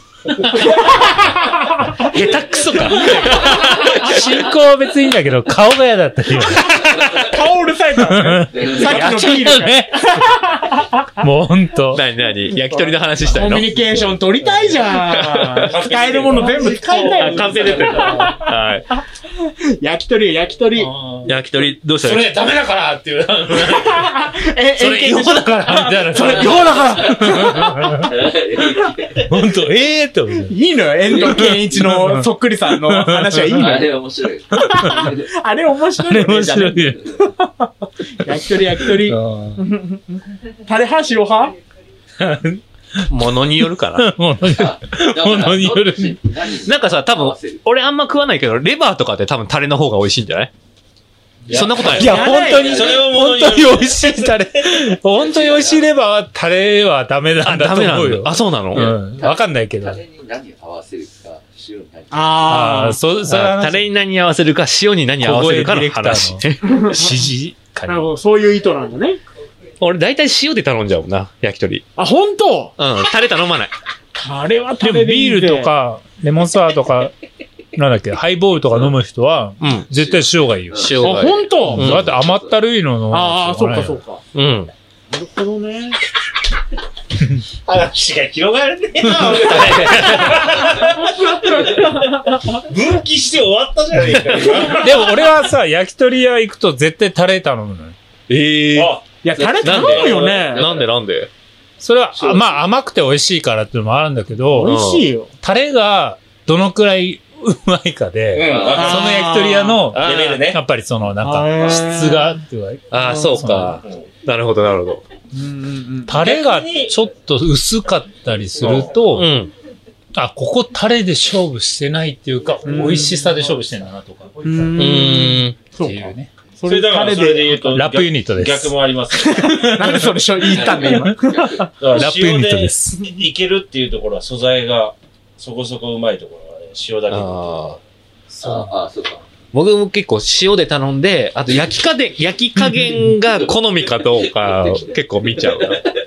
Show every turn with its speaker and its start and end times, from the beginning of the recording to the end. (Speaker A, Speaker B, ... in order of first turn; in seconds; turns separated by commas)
Speaker A: 0.5-1.7, Speaker B: 2.0-4.4, Speaker C: 2.6-7.1, Speaker A: 6.7-11.1, Speaker C: 8.0-10.2, Speaker D: 8.5-9.1, Speaker B: 9.0-9.6, Speaker C: 11.2-12.0, Speaker B: 11.9-13.9, Speaker A: 12.5-18.5, Speaker B: 15.0-15.4, Speaker E: 15.5-18.3, Speaker C: 16.6-18.4, Speaker B: 18.4-18.9, Speaker A: 19.8-20.9, Speaker E: 20.8-21.3, Speaker B: 21.2-22.3, Speaker C: 22.0-28.1, Speaker A: 23.9-27.6, Speaker D: 27.9-29.2, Speaker C: 29.1-30.6, Speaker A: 30.4-34.0, Speaker C: 31.1-33.8, Speaker D: 31.1-31.6, Speaker D: 33.5-35.3, Speaker C: 34.5-35.1, Speaker A: 34.6-36.9, Speaker C: 36.0-37.7, Speaker A: 38.2-41.5, Speaker C: 38.8-39.6, Speaker C: 42.2-43.0, Speaker B: 43.1-44.1, Speaker C: 43.9-46.3, Speaker D: 44.6-47.6, Speaker B: 46.5-50.5, Speaker E: 51.5-54.5, Speaker B: 51.5-52.7, Speaker D: 51.5-51.8, Speaker C: 51.8-60.0, Speaker A: 52.0-52.8, Speaker D: 55.1-55.9, Speaker B: 57.4-58.9, Speaker D: 58.8-62.4, Speaker A: 62.1-63.0, Speaker C: 62.4-63.9, Speaker B: 63.2-66.6, Speaker C: 65.2-68.0, Speaker A: 66.6-67.2, Speaker A: 67.9-69.2, Speaker B: 69.8-71.8, Speaker A: 72.0-72.8, Speaker B: 72.8-73.7, Speaker A: 74.2-75.7, Speaker C: 74.8-77.1, Speaker C: 77.8-84.0, Speaker B: 79.6-79.9, Speaker B: 80.7-82.1, Speaker A: 81.0-81.9, Speaker A: 83.1-84.2, Speaker B: 84.3-84.7, Speaker A: 85.1-86.0, Speaker E: 87.7-91.9, Speaker B: 89.4-90.1, Speaker C: 90.0-90.4, Speaker E: 92.5-95.2, Speaker C: 94.7-98.0, Speaker B: 98.3-98.9, Speaker E: 98.7-99.2, Speaker A: 99.2-100.7, Speaker D: 99.4-100.6, Speaker B: 99.6-101.3, Speaker E: 99.7-100.8, Speaker C: 101.8-104.8, Speaker D: 102.2-102.6, Speaker A: 104.5-105.3, Speaker B: 104.7-105.1, Speaker C: 105.4-113.8, Speaker E: 108.3-109.2, Speaker D: 108.5-108.9, Speaker A: 108.7-109.8, Speaker E: 109.8-110.6, Speaker A: 111.2-112.4, Speaker E: 111.6-111.8, Speaker B: 112.9-115.0, Speaker A: 113.0-113.6, Speaker E: 113.7-114.1, Speaker A: 115.3-116.2, Speaker C: 116.1-119.3, Speaker E: 116.1-117.0, Speaker E: 118.6-118.9, Speaker B: 119.1-119.5, Speaker C: 120.2-124.9, Speaker A: 122.7-123.3, Speaker A: 124.4-127.6, Speaker B: 124.8-125.7, Speaker C: 125.8-126.3, Speaker E: 126.6-129.9, Speaker C: 127.7-128.7, Speaker A: 129.1-131.7, Speaker C: 129.5-130.0, Speaker D: 130.5-131.6, Speaker C: 130.8-131.3, Speaker E: 131.8-137.8, Speaker C: 131.9-133.0, Speaker B: 137.1-137.8, Speaker C: 138.3-138.7, Speaker D: 138.4-139.2, Speaker B: 139.5-145.9, Speaker C: 142.6-143.1, Speaker D: 144.4-144.9